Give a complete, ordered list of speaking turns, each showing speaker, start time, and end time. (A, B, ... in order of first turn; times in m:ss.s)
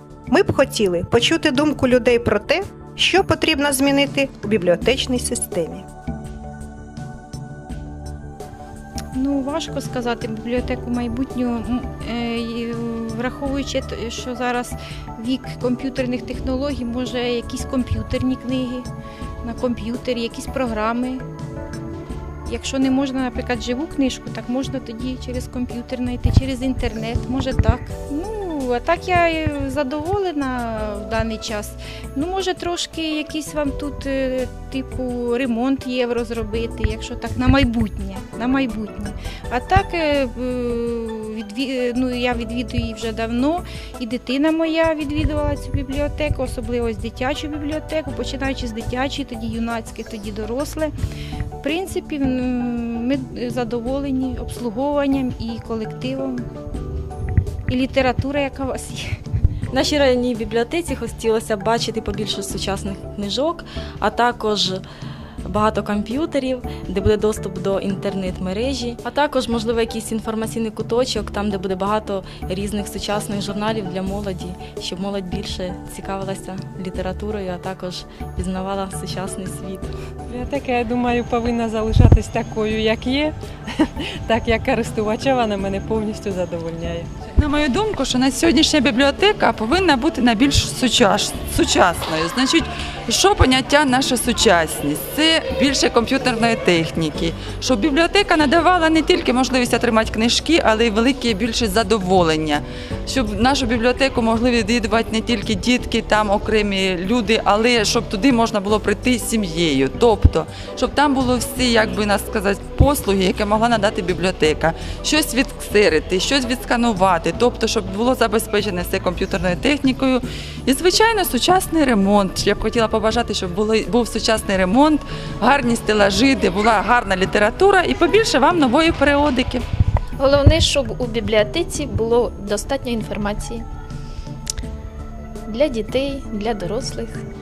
0:00.3-0:05.8 A
0:09.1-0:18.9 B
0:19.4-0:21.2 B
0:22.5-0:50.9 B
0:51.6-0:56.4 B
0:57.7-0:59.0 B
0:59.7-1:04.8 C
1:05.5-1:19.9 C
1:20.3-1:23.3 D
1:24.3-1:27.1 D
1:27.4-2:09.6 E
2:10.2-2:13.6 F
2:15.5-2:17.2 F